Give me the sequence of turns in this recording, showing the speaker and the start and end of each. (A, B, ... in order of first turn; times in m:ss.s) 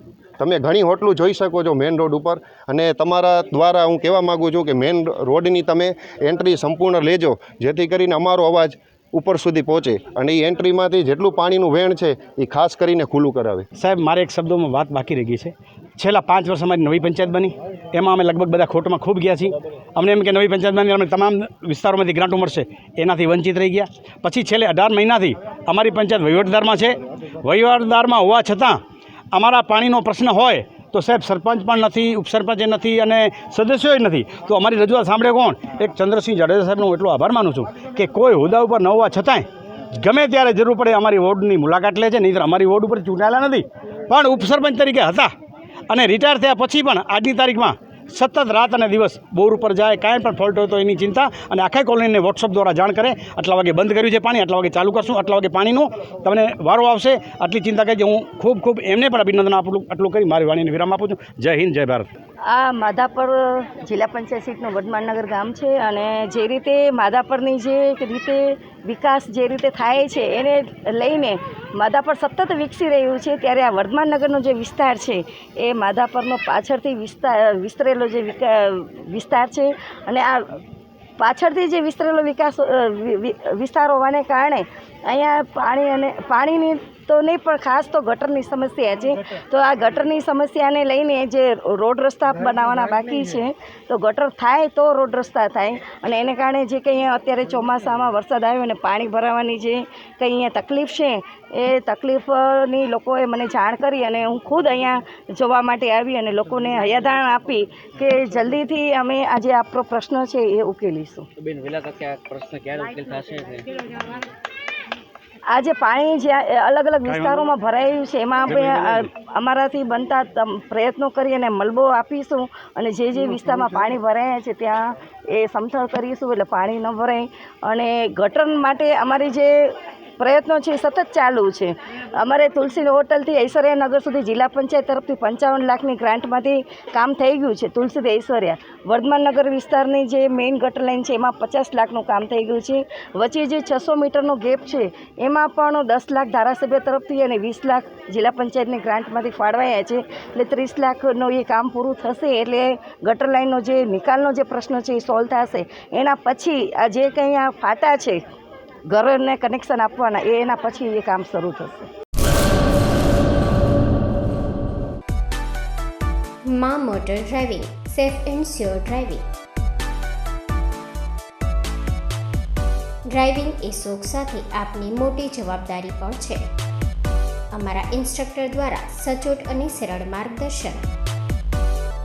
0:00.4-0:13.7 A
0:13.8-0:28.8 B
0:29.3-0:39.5 B
0:40.0-0:45.3 B
0:45.9-1:02.1 B
1:02.5-1:20.6 C
1:21.2-1:51.2 C
1:51.4-1:53.7 D
1:55.5-2:04.8 C
1:57.1-1:57.4 B
1:58.5-1:59.1 B
2:05.3-2:38.2 C
2:38.9-2:41.9 C
2:46.5-2:49.2 E
2:53.1-2:56.4 E
2:57.6-3:00.8 E